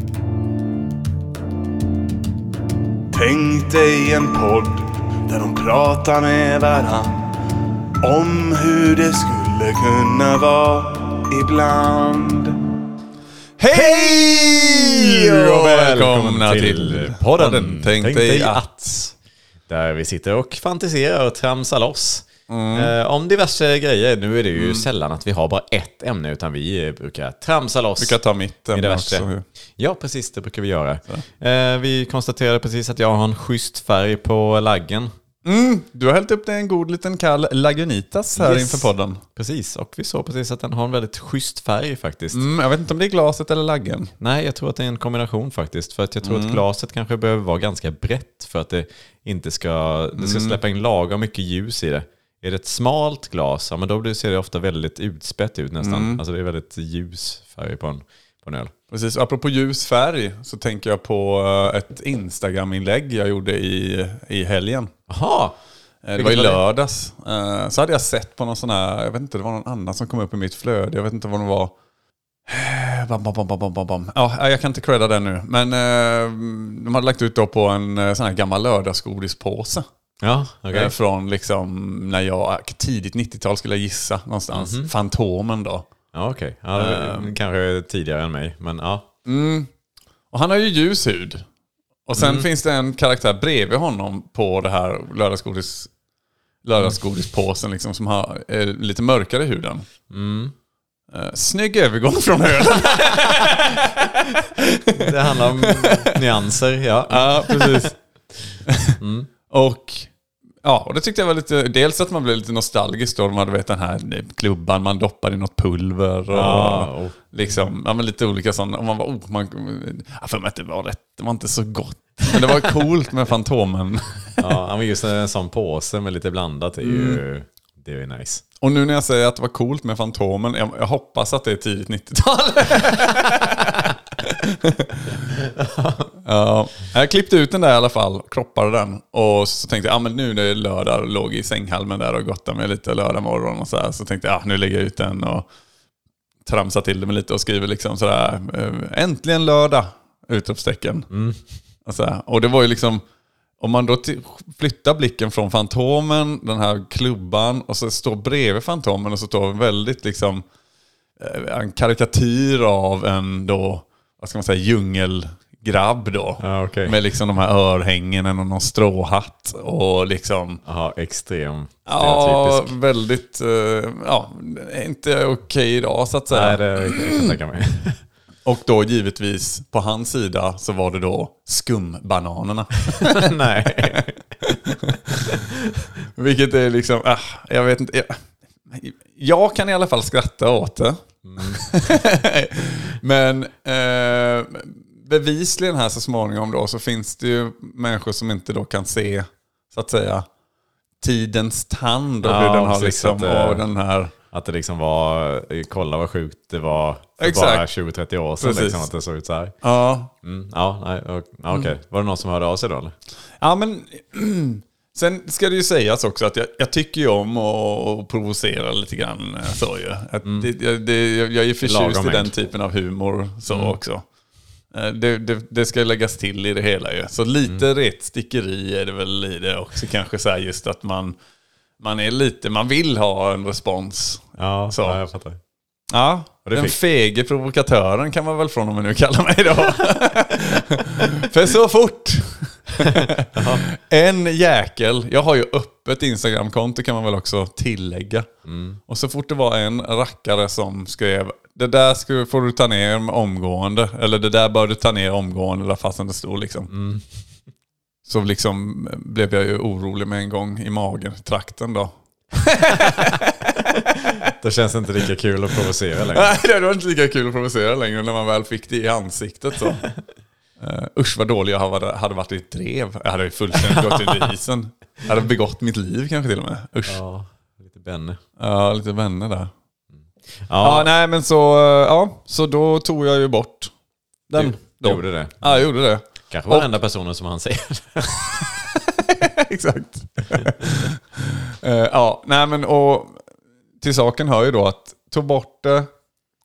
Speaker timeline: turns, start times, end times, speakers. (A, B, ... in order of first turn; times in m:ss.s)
0:03.1-0:07.3 A
0:08.0-0:12.6 A
0:13.6-0:18.6 B
0:13.7-0:19.1 C
0:19.7-0:28.2 C
0:22.5-0:22.9 B
0:24.5-0:24.8 B
0:28.0-0:29.4 B
0:28.7-0:35.1 C
0:35.4-0:39.2 B
0:38.4-0:42.4 C
0:42.3-0:44.1 B
0:44.2-0:58.7 C
0:46.2-0:46.6 B
0:50.2-0:50.6 B
0:55.8-0:56.2 B
0:58.9-1:04.9 B
1:05.1-1:05.6 C
1:06.0-1:11.7 B
1:06.2-1:06.6 C
1:12.5-1:19.8 B
1:20.2-1:20.9 C
1:20.7-1:25.9 B
1:24.5-1:24.9 C
1:26.1-1:29.1 C
1:26.7-1:27.3 B
1:29.2-1:29.7 B
1:30.3-1:31.4 B
1:32.0-1:35.9 B
1:32.2-1:32.5 C
1:36.6-1:39.8 B
1:40.1-1:40.5 C
1:41.1-1:46.2 B
1:44.9-1:47.9 C
1:47.1-1:48.0 B
1:48.6-1:49.0 B
1:49.0-1:49.3 C
1:49.5-1:50.1 B
1:50.6-2:04.4 B
1:56.3-1:57.1 C
2:04.4-2:08.4 C
2:06.8-2:07.2 B
2:08.6-2:15.3 B
2:15.4-2:16.1 C
2:16.2-2:25.5 B
2:26.4-2:31.1 B
2:31.1-2:31.4 C
2:31.8-2:33.0 B
2:33.6-2:40.4 B
2:41.2-2:50.6 B
2:46.4-2:47.0 C
2:50.6-2:52.7 C
2:51.8-2:57.3 B
2:56.3-2:58.0 C
2:58.4-3:05.5 B
3:02.9-3:04.1 C
3:05.2-3:05.9 C
3:06.1-3:20.3 B
3:11.2-3:11.6 C
3:21.0-3:24.1 B
3:22.2-3:23.6 C
3:24.3-3:29.5 C
3:27.2-3:27.7 B
3:28.4-3:28.9 B
3:29.6-3:30.1 B
3:30.2-3:32.9 C
3:33.4-3:44.0 B
3:40.2-3:40.5 C
3:41.6-3:42.3 C
3:43.5-3:43.8 C
3:44.7-3:51.1 B
3:51.8-3:55.0 B
3:54.4-3:55.4 C
3:55.9-4:08.3 B
3:56.4-3:56.8 C
4:02.8-4:03.6 C
4:08.4-4:08.8 C
4:08.9-4:16.7 B
4:16.7-4:17.1 C
4:18.0-4:23.4 B
4:24.2-4:26.3 C
4:26.1-4:29.8 B
4:30.6-4:37.0 B
4:33.6-4:34.3 C
4:36.9-4:38.2 C
4:38.4-4:39.5 B
4:40.4-4:40.9 C
4:40.6-4:43.7 B
4:44.3-4:46.7 B
4:44.3-4:45.7 C
4:46.3-4:48.3 C
4:48.9-4:53.2 B
4:53.8-4:55.9 B